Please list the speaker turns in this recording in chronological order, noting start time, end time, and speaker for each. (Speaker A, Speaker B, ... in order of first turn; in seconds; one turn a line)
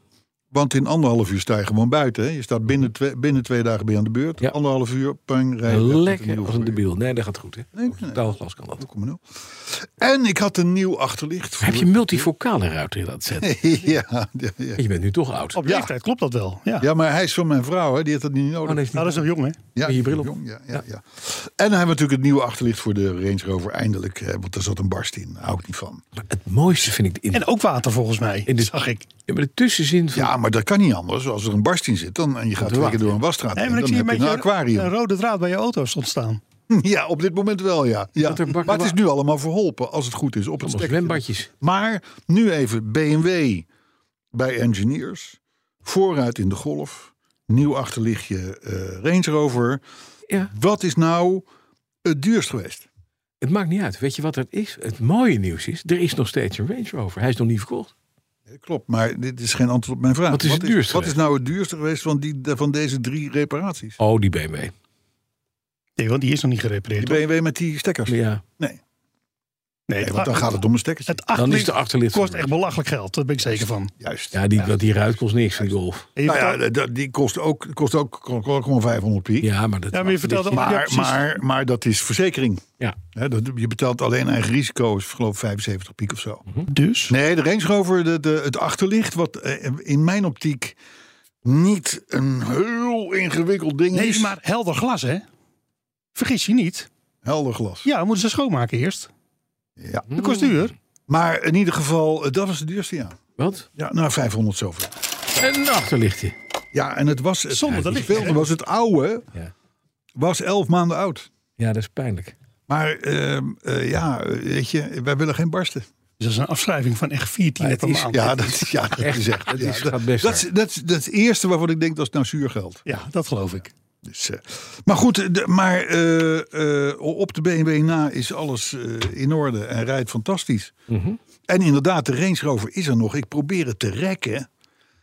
Speaker A: 0.5-6.8
Speaker B: 5.7-8.8
Speaker A: 7.7-8.2
Speaker A: 8.8-12.3
Speaker B: 11.6-13.7
Speaker A: 13.4-14.8
Speaker B: 14.8-15.6
Speaker C: 15.6-16.9
Speaker A: 15.6-15.9
Speaker A: 16.8-18.9
Speaker B: 18.6-19.2
Speaker C: 18.9-19.6
Speaker A: 19.7-26.0
Speaker B: 19.8-20.8
Speaker B: 26.1-27.5
Speaker C: 27.3-29.1
Speaker B: 28.4-28.7
Speaker B: 29.3-30.3
Speaker A: 30.1-34.9
Speaker B: 32.6-33.2
Speaker C: 33.5-36.4
Speaker A: 36.7-43.7
Speaker B: 38.2-39.0
Speaker B: 40.6-41.5
Speaker A: 44.3-49.8
Speaker A: 50.5-51.4
Speaker A: 52.0-52.9
Speaker B: 53.4-57.9
Speaker A: 58.5-64.0
Speaker B: 60.3-61.1
Speaker B: 64.0-64.7
Speaker C: 66.0-67.2
Speaker A: 67.0-68.8
Speaker B: 68.1-68.4
Speaker C: 69.9-70.5
Speaker A: 70.0-71.2
Speaker C: 71.1-73.9
Speaker B: 71.3-72.5
Speaker A: 73.4-75.7
Speaker B: 74.3-76.1
Speaker C: 76.2-76.6
Speaker A: 76.2-79.5
Speaker B: 79.4-80.7
Speaker C: 79.9-81.3
Speaker A: 80.5-86.5
Speaker C: 86.7-87.1
Speaker A: 87.1-90.8
Speaker A: 91.4-94.4
Speaker C: 93.9-95.2
Speaker C: 96.1-96.9
Speaker A: 97.2-97.9
Speaker C: 97.8-99.1
Speaker A: 99.8-100.1
Speaker B: 100.1-100.7
Speaker C: 100.1-100.7
Speaker A: 101.1-103.2
Speaker B: 103.4-103.7
Speaker A: 103.8-104.9
Speaker B: 105.4-106.3
Speaker A: 106.7-109.3
Speaker C: 107.5-108.4
Speaker B: 107.7-108.4
Speaker A: 110.2-111.3
Speaker B: 111.6-112.3
Speaker A: 112.7-115.9
Speaker C: 116.2-118.7
Speaker B: 117.6-120.5
Speaker A: 118.1-122.9
Speaker C: 122.9-123.7
Speaker A: 124.0-130.7
Speaker B: 130.9-131.2
Speaker A: 131.5-134.5